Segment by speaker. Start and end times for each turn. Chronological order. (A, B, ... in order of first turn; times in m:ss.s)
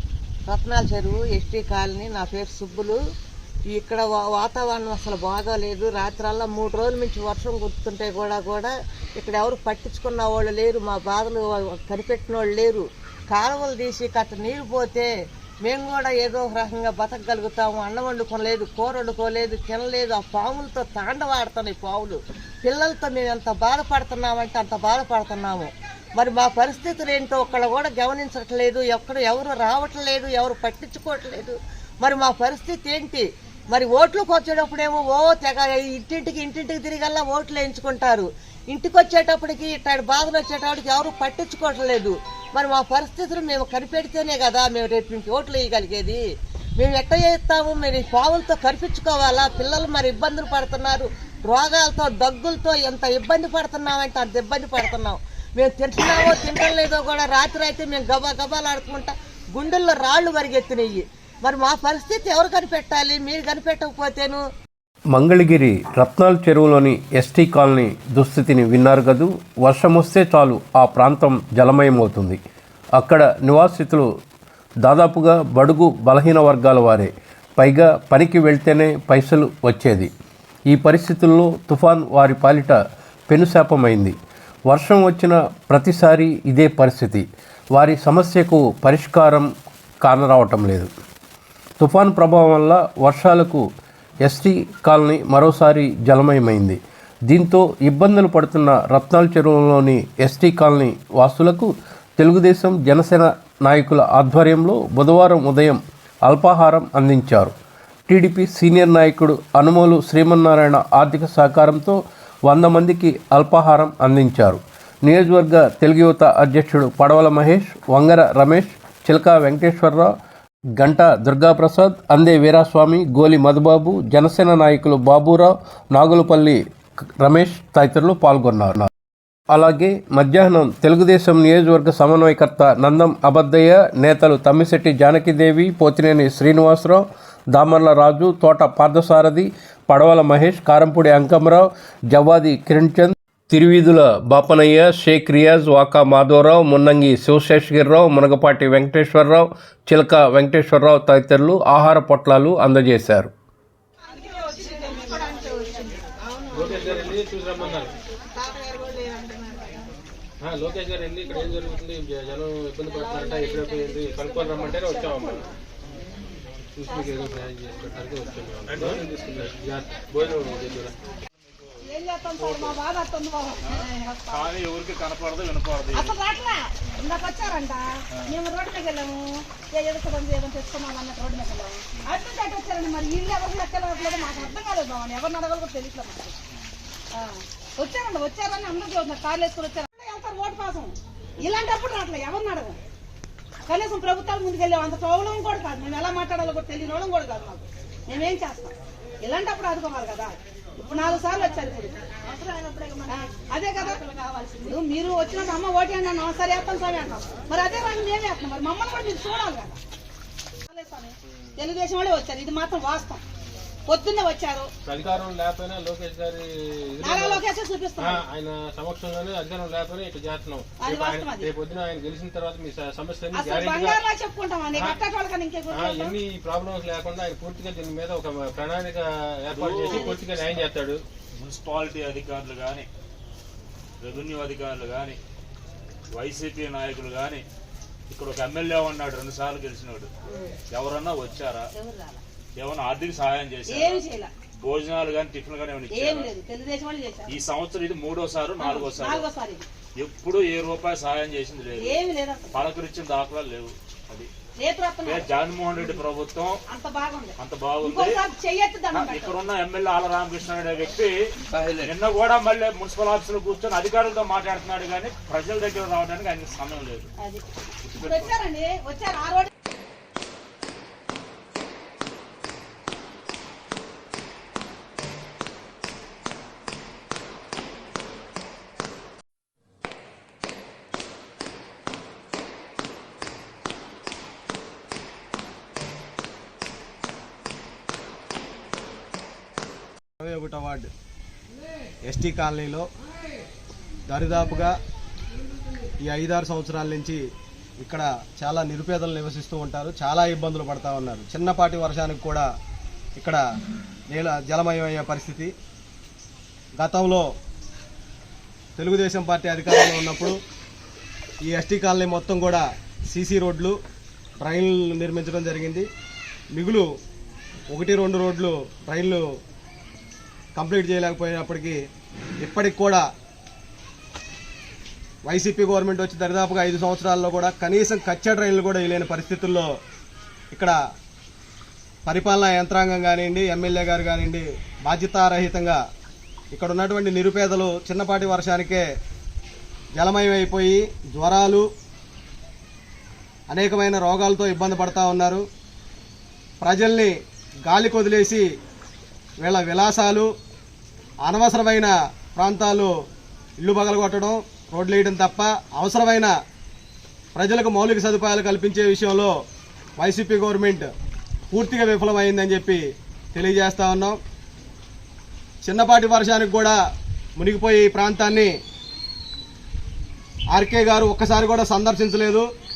0:00.5-0:03.0 A
0:03.7-0:15.1 A
0:15.6-0:46.2 A
0:46.8-1:04.4 A
1:05.1-1:12.4 B
1:13.0-1:14.1 B
1:14.8-1:20.1 B
1:20.7-1:24.2 B
1:24.7-1:29.5 B
1:30.0-1:30.9 B
1:31.8-1:33.6 B
1:34.2-1:47.5 B
1:48.1-2:00.1 B
2:00.8-2:06.6 B
2:07.2-2:08.9 B
2:09.5-2:33.3 B
2:34.7-2:35.3 C
2:36.5-2:37.9 D
2:40.4-2:45.5 D
2:46.7-2:50.9 D
2:51.8-2:54.4 C
2:52.4-2:52.7 E
2:54.3-2:56.1 E
2:55.9-3:06.4 C
3:07.1-3:12.8 C
3:13.6-3:22.0 C
3:23.0-3:29.8 C
3:30.6-3:33.2 C
3:33.9-3:34.7 C
3:34.8-3:37.4 D
3:37.0-3:38.2 C
3:38.0-3:44.0 D
3:40.8-3:41.5 C
3:43.3-3:46.2 C
3:44.7-3:45.0 D
3:45.7-3:51.0 D
3:49.5-3:50.2 E
3:49.9-3:50.2 C
3:51.4-3:52.9 E
3:54.0-3:55.2 E
3:56.1-3:57.4 E
3:58.1-4:00.1 E
4:00.7-4:01.7 E
4:01.7-4:02.2 C
4:02.6-4:04.0 E
4:03.7-4:04.3 C
4:04.6-4:06.3 E
4:05.9-4:07.3 C
4:07.3-4:09.3 E
4:08.6-4:09.6 C
4:10.0-4:14.3 E
4:11.8-4:12.6 C
4:14.6-4:15.2 C
4:15.0-4:16.6 E
4:16.7-4:19.4 C
4:17.4-4:18.2 E
4:18.9-4:27.1 E
4:27.2-4:27.4 C
4:27.8-4:28.4 E
4:28.0-4:29.5 C
4:50.2-4:50.9 F
4:52.0-4:52.9 F
4:54.1-4:54.7 F
4:56.0-4:57.2 F
4:57.8-5:02.5 F
5:04.1-5:05.5 F
5:06.8-5:07.3 F
5:08.8-5:10.4 F
5:11.4-5:13.8 F
5:14.4-5:15.9 F
5:16.5-5:16.9 F
5:17.7-5:19.2 F
5:20.5-5:21.8 F
5:22.4-5:23.0 F
5:25.2-5:29.7 F
5:32.0-5:35.8 F
5:36.5-5:38.8 F
5:40.0-5:41.6 F
5:43.5-5:45.4 F
5:46.6-5:47.1 F
5:47.7-5:48.4 F
5:49.4-5:50.3 F
5:51.2-5:52.9 F
5:53.6-5:56.3 F
5:57.3-5:59.3 F
6:00.0-6:00.9 F
6:01.5-6:02.8 F
6:03.3-6:04.2 F
6:05.6-6:06.8 F
6:07.4-6:08.5 F
6:10.5-6:12.5 F